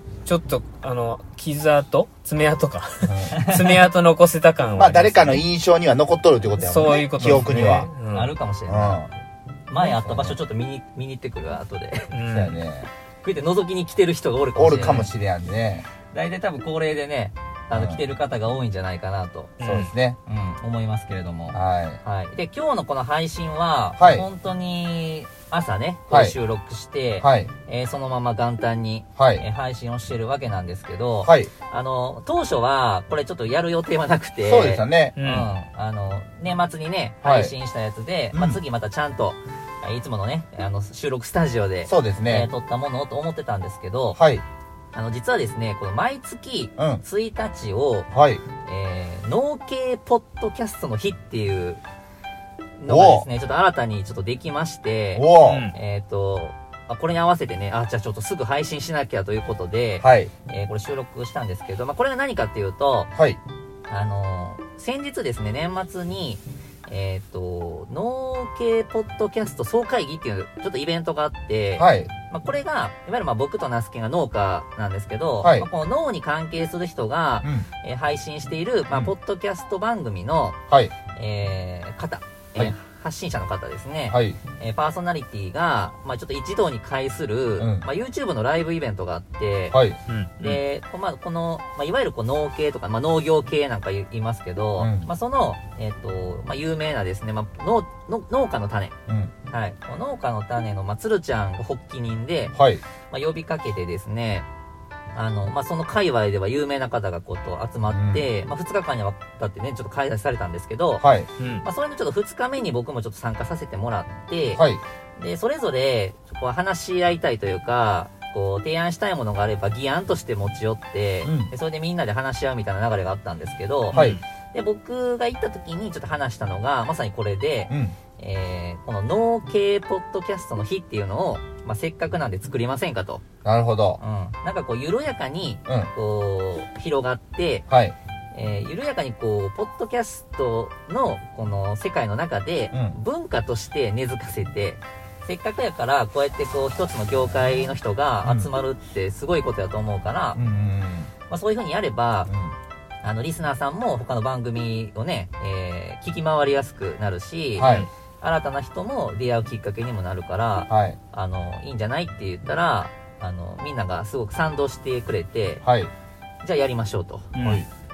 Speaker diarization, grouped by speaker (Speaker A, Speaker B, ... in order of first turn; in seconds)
Speaker A: 0.2-5.4, 6.6-8.3, 12.1-12.6, 19.6-19.9, 35.1-35.5, 55.4-55.7, 90.1-90.6, 111.4-111.6, 123.9-124.2, 157.6-157.9, 167.3-167.6
Speaker B: 3.0-3.4, 4.8-7.9, 8.7-9.1, 9.8-10.4, 12.3-12.9, 14.6-15.9, 17.7-18.0, 19.6-20.2, 21.5-22.0, 24.0-24.2, 26.1-26.4, 27.2-27.5, 29.2-29.4, 31.2-31.5, 34.4-35.2, 37.2-37.5, 38.3-38.6, 41.9-42.5, 44.1-44.4, 46.8-47.0, 48.1-48.4, 52.9-53.3, 55.1-55.7, 60.0-60.3, 63.1-63.4, 71.8-72.1, 75.4-75.7, 84.1-84.4, 87.6-87.8, 89.7-90.0, 94.8-95.1, 99.1-99.3, 102.5-102.8, 107.9-108.2, 111.0-111.3, 114.5-114.8, 121.2-121.5, 123.9-124.2, 127.7-128.0, 133.4-134.0, 137.7-137.9, 142.7-143.0, 148.2-148.5, 150.3-151.1, 152.3-152.6, 157.6-157.9, 160.7-161.0, 165.6-165.9, 167.4-167.7
Speaker C: 3.3-3.6, 8.1-9.1, 9.7-12.1, 13.2-15.1, 16.0-19.5, 20.2-44.2, 44.9-48.1, 48.6-51.8, 52.8-63.1, 63.9-80.6, 81.1-89.8, 90.4-98.9, 99.5-102.5, 103.1-104.5, 105.1-111.1, 111.6-114.7, 115.2-133.2, 134.0-137.7, 138.3-150.4, 151.3-152.3, 153.0-165.6, 166.4-167.3